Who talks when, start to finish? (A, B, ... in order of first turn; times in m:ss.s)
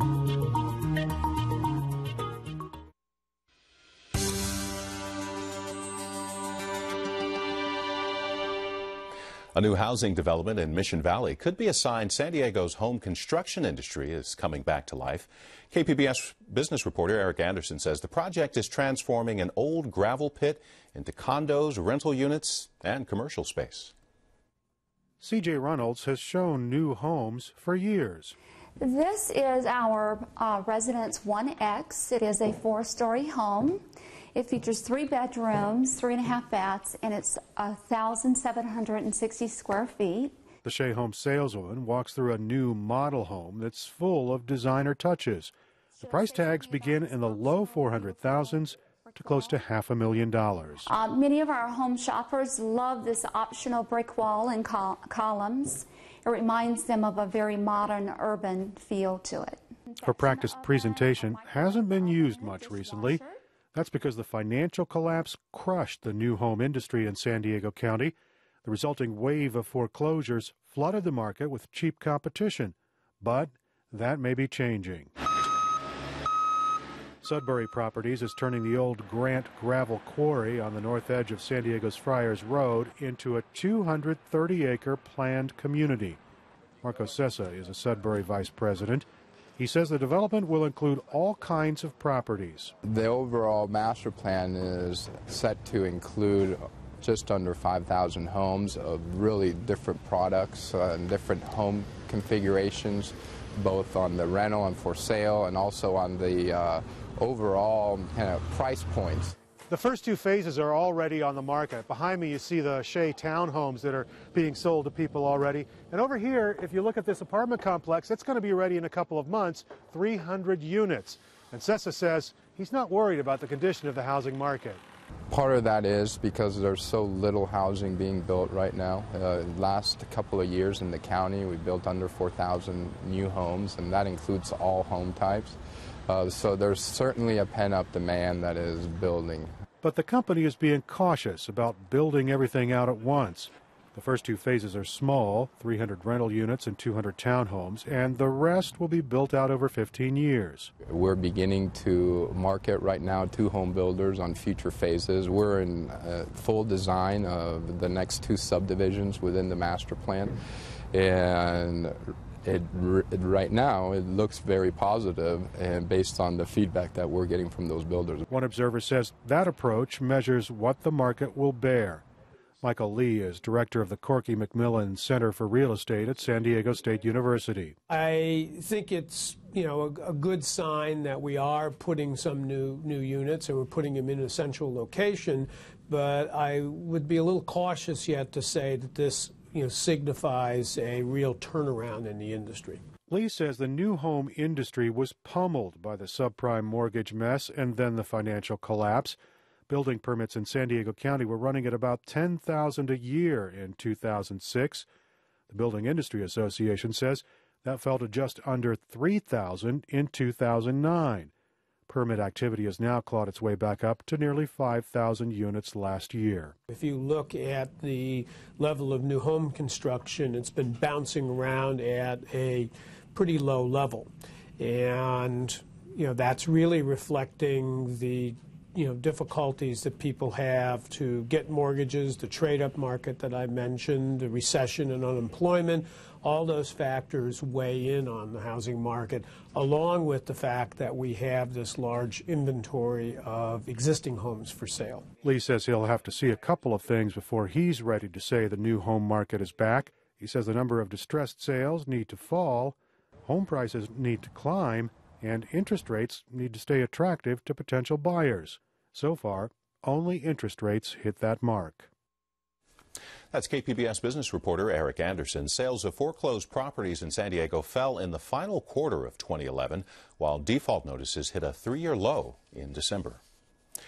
0:09.5-0:23.9 A
0:25.2-0:28.3 B
0:28.8-0:40.4 C
0:40.6-0:50.9 B
0:47.2-0:47.5 C
0:50.8-1:03.3 C
1:00.0-1:15.1 B
1:17.2-1:26.2 B
1:26.8-1:32.7 B
1:32.8-1:49.4 D
1:49.7-2:04.8 B
2:05.3-2:19.5 D
2:19.8-2:30.7 B
2:30.8-2:40.4 D
2:40.9-2:48.2 D
2:48.3-2:52.0 B
2:52.6-2:57.8 B
2:57.9-3:12.8 E
3:13.1-3:19.2 B
3:19.7-3:24.8 B
3:25.5-3:31.3 B
3:31.9-3:36.5 B
3:36.7-4:05.1 E
4:05.2-4:21.9 B
4:23.3-4:33.2 A